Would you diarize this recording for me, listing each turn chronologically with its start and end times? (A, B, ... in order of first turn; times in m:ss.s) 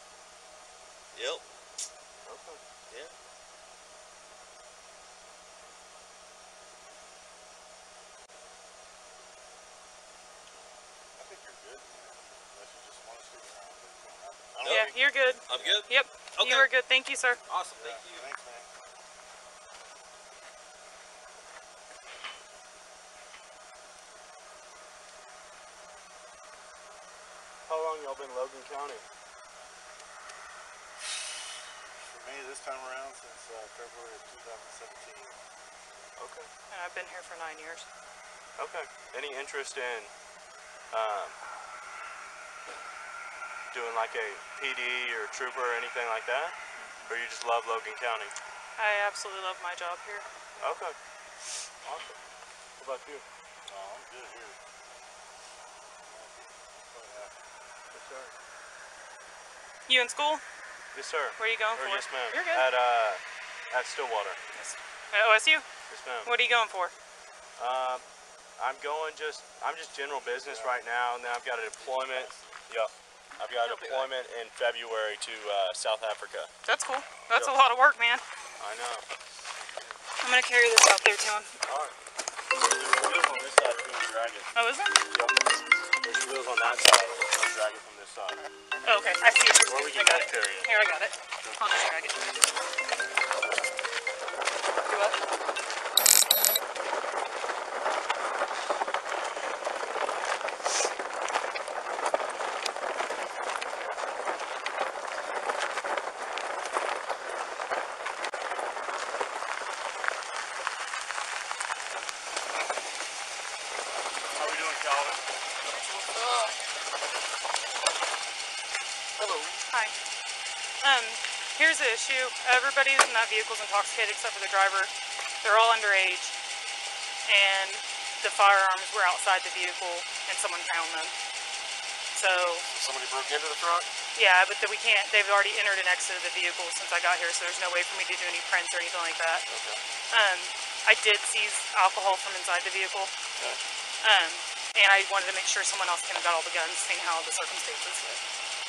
0:01.1-0:01.4 A
0:02.2-0:02.6 B
0:11.2-0:15.0 C
0:14.5-0:16.7 A
0:14.6-0:14.9 B
0:14.6-0:17.4 D
0:15.5-0:15.8 C
0:17.5-0:18.3 A
0:17.8-0:18.7 C
0:27.7-0:29.0 B
0:32.0-0:35.4 C
0:36.2-0:36.5 B
0:36.7-0:37.9 D
0:38.6-0:40.1 B
0:40.9-0:41.4 B
0:43.7-0:46.5 B
0:47.0-0:48.3 B
0:48.8-0:50.2 D
0:50.5-0:50.8 C
0:50.6-0:51.0 B
0:51.8-0:52.2 B
0:52.8-0:53.2 B
0:53.6-0:54.6 C
0:56.0-0:57.4 C
0:57.9-0:58.3 B
0:59.9-1:00.4 D
1:00.9-1:04.4 B
1:01.4-1:02.6 D
1:04.5-1:05.7 D
1:05.9-1:06.3 B
1:06.2-1:06.9 D
1:07.6-1:08.0 B
1:08.6-1:16.5 B
1:10.2-1:10.8 C
1:11.9-1:12.3 C
1:16.6-1:18.2 D
1:18.6-1:19.0 B
1:20.2-1:21.5 D
1:21.6-1:22.0 B
1:22.8-1:24.5 B
1:24.5-1:25.0 D
1:25.1-1:25.4 B
1:26.0-1:28.4 B
1:28.8-1:32.3 D
1:29.6-1:30.7 B
1:34.9-1:35.2 D
1:55.7-1:56.5 E
1:59.2-1:59.6 E
2:00.8-2:06.4 D
2:07.2-2:11.1 D
2:12.1-2:12.7 D
2:12.6-2:13.9 E
2:14.1-2:19.4 D
2:19.5-2:19.8 E
2:20.1-2:23.1 D
2:24.0-2:28.2 D